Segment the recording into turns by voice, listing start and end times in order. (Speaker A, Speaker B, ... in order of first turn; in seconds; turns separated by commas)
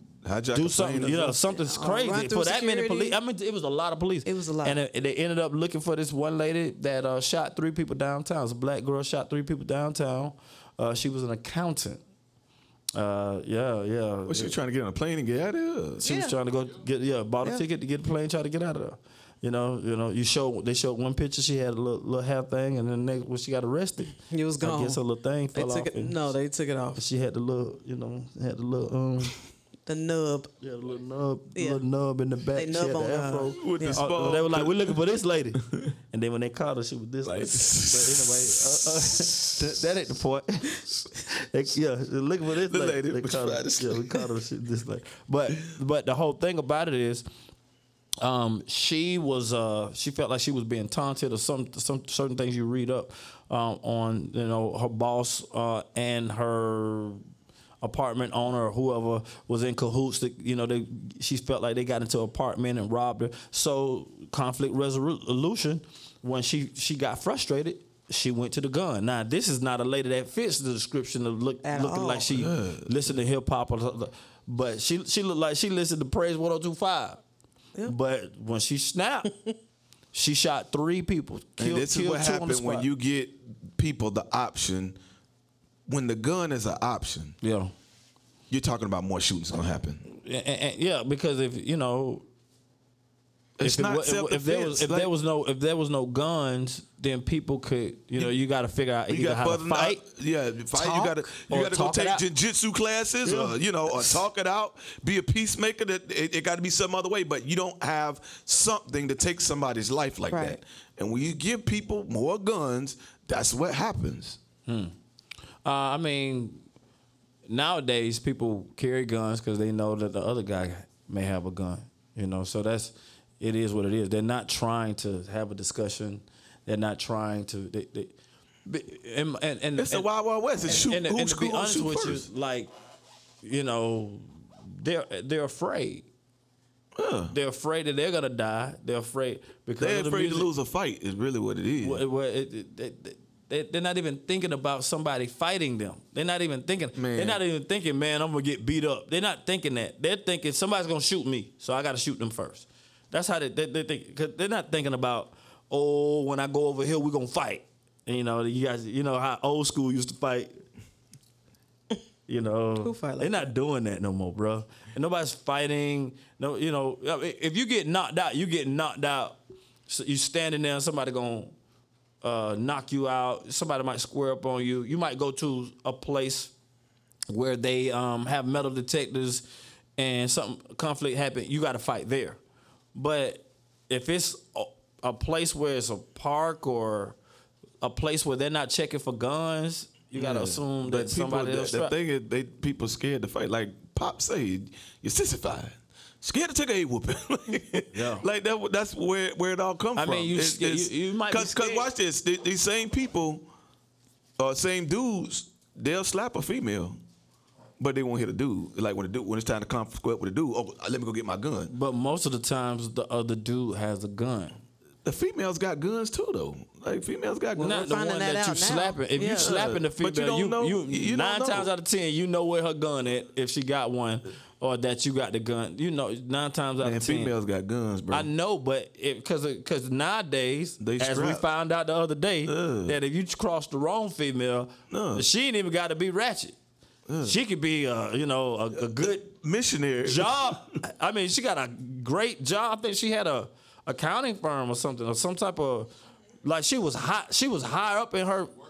Speaker A: 0.2-1.4, Speaker B: 0.5-12.0, Speaker C: 1.5-3.1, Speaker C: 4.2-4.8, Speaker B: 12.9-14.5, Speaker A: 14.3-16.0, Speaker B: 16.0-26.3, Speaker C: 16.0-16.3, Speaker C: 24.3-25.0, Speaker C: 25.5-27.0, Speaker B: 26.9-29.3, Speaker C: 29.9-30.5, Speaker B: 30.6-47.3, Speaker C: 31.6-31.8, Speaker C: 32.5-34.0, Speaker A: 33.5-35.0, Speaker A: 35.6-35.9, Speaker A: 37.2-39.6, Speaker A: 42.7-44.1, Speaker B: 48.2-57.2, Speaker B: 57.8-77.2, Speaker C: 71.6-72.3, Speaker A: 72.3-72.9, Speaker B: 77.8-79.3, Speaker B: 80.1-82.9, Speaker A: 81.6-85.0, Speaker A: 85.9-87.4, Speaker B: 87.4-87.7, Speaker A: 88.5-90.0, Speaker B: 90.0-92.2, Speaker A: 93.6-95.1, Speaker B: 93.6-100.0, Speaker A: 99.1-114.4, Speaker B: 100.7-102.2, Speaker B: 103.2-104.2, Speaker C: 110.3-110.6, Speaker B: 114.7-114.9, Speaker B: 115.6-116.7, Speaker B: 117.5-128.1, Speaker B: 128.7-130.1, Speaker A: 129.8-132.2, Speaker B: 130.6-132.7, Speaker B: 133.4-136.1, Speaker A: 136.9-137.3, Speaker B: 137.3-140.5, Speaker A: 139.8-142.0, Speaker B: 141.8-160.6, Speaker A: 146.9-147.4, Speaker B: 162.3-171.5, Speaker C: 162.8-163.5, Speaker B: 172.2-176.5, Speaker B: 177.3-179.4, Speaker B: 180.0-182.4, Speaker B: 182.9-187.2, Speaker B: 187.8-191.9, Speaker A: 190.1-203.5, Speaker B: 197.9-198.2, Speaker B: 199.9-201.9, Speaker A: 204.4-207.0, Speaker A: 207.8-211.7, Speaker B: 211.7-214.6, Speaker A: 215.0-217.9, Speaker C: 217.6-219.5, Speaker B: 217.6-227.3, Speaker A: 219.4-221.7, Speaker A: 226.8-228.3, Speaker B: 228.1-236.5, Speaker A: 230.8-231.4, Speaker A: 232.4-232.9, Speaker A: 234.9-235.2, Speaker A: 237.1-237.4, Speaker B: 237.2-239.3, Speaker A: 238.7-240.8, Speaker B: 240.0-248.5